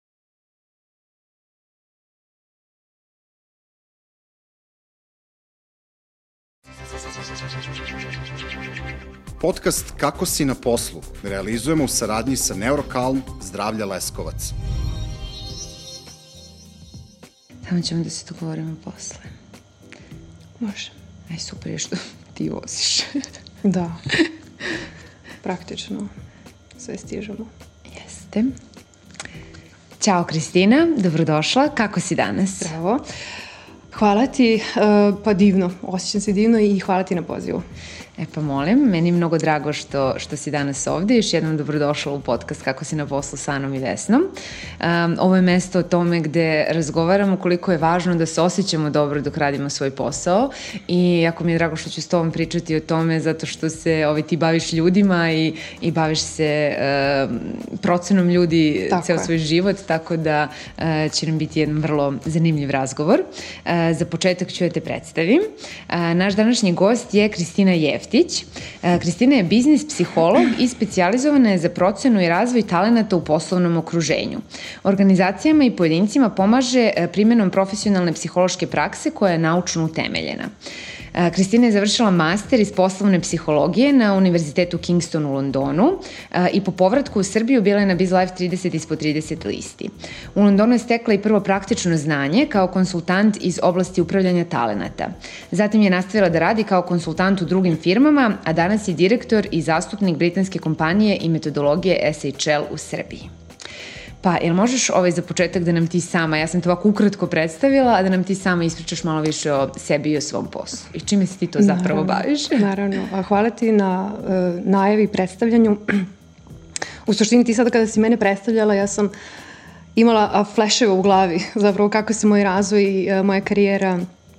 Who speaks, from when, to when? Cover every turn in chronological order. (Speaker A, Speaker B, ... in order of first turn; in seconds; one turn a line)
Speaker A: 9.4-14.5
Speaker B: 17.6-19.3
Speaker C: 20.6-20.9
Speaker B: 21.3-23.3
Speaker C: 23.6-24.0
Speaker C: 25.4-26.1
Speaker C: 26.8-27.5
Speaker B: 27.9-28.6
Speaker B: 30.0-32.7
Speaker C: 32.6-33.0
Speaker C: 33.9-37.6
Speaker B: 38.2-44.3
Speaker B: 44.8-80.5
Speaker C: 58.9-59.3
Speaker B: 81.1-103.3
Speaker B: 104.2-112.7
Speaker C: 111.6-116.1
Speaker C: 117.1-119.1
Speaker C: 120.0-124.1